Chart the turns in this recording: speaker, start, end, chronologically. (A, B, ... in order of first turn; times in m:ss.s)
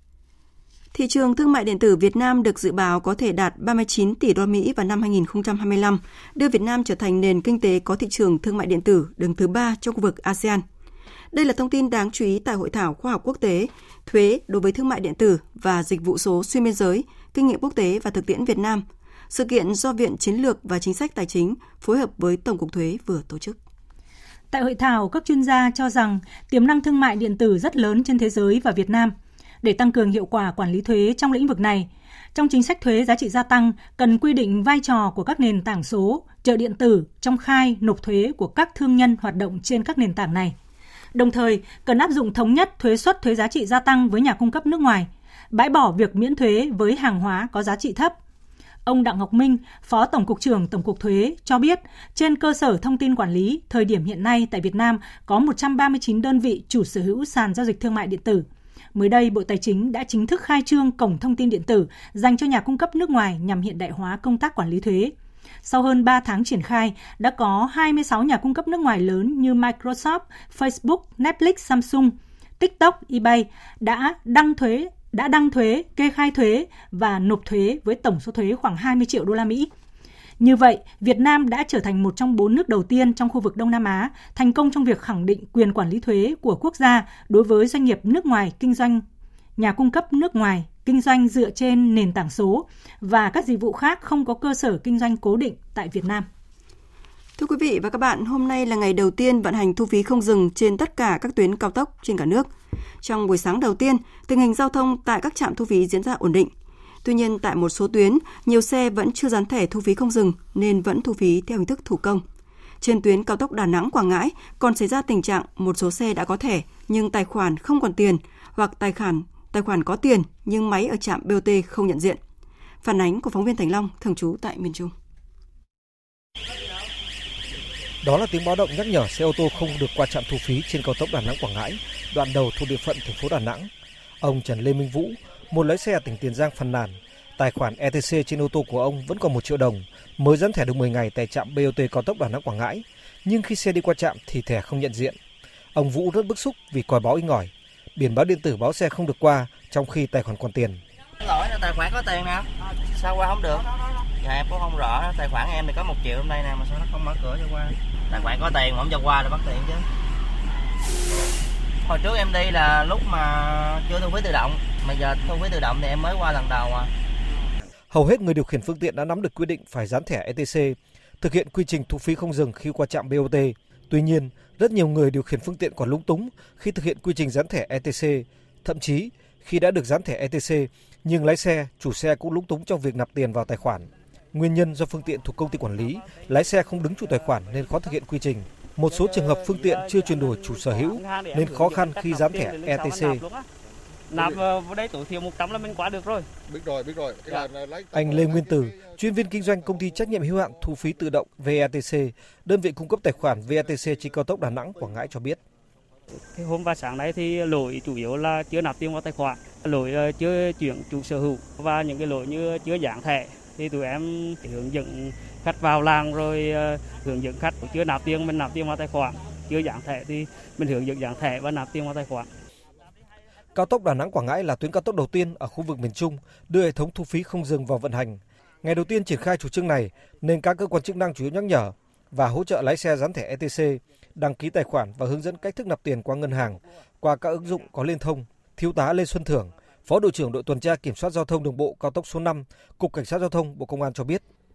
0:00.9-0:10.6 A
0:11.3-0:23.6 A
0:24.5-0:40.6 B
0:41.1-0:48.1 B
0:48.8-1:05.1 B
1:05.6-1:19.7 B
1:20.4-1:29.0 B
1:29.6-1:36.3 B
1:37.4-1:42.5 A
1:43.0-1:46.5 A
1:47.0-1:52.2 A
1:52.8-2:02.2 A
2:02.8-2:04.9 A
2:08.0-2:13.7 C
2:14.2-2:25.2 C
2:25.7-2:30.8 C
2:31.2-2:39.8 D
2:41.8-2:46.9 D
2:47.9-3:13.2 C
3:09.1-3:13.4 E
3:14.1-3:16.3 E
3:17.9-3:25.4 C
3:26.3-3:42.3 E
3:43.5-4:04.2 C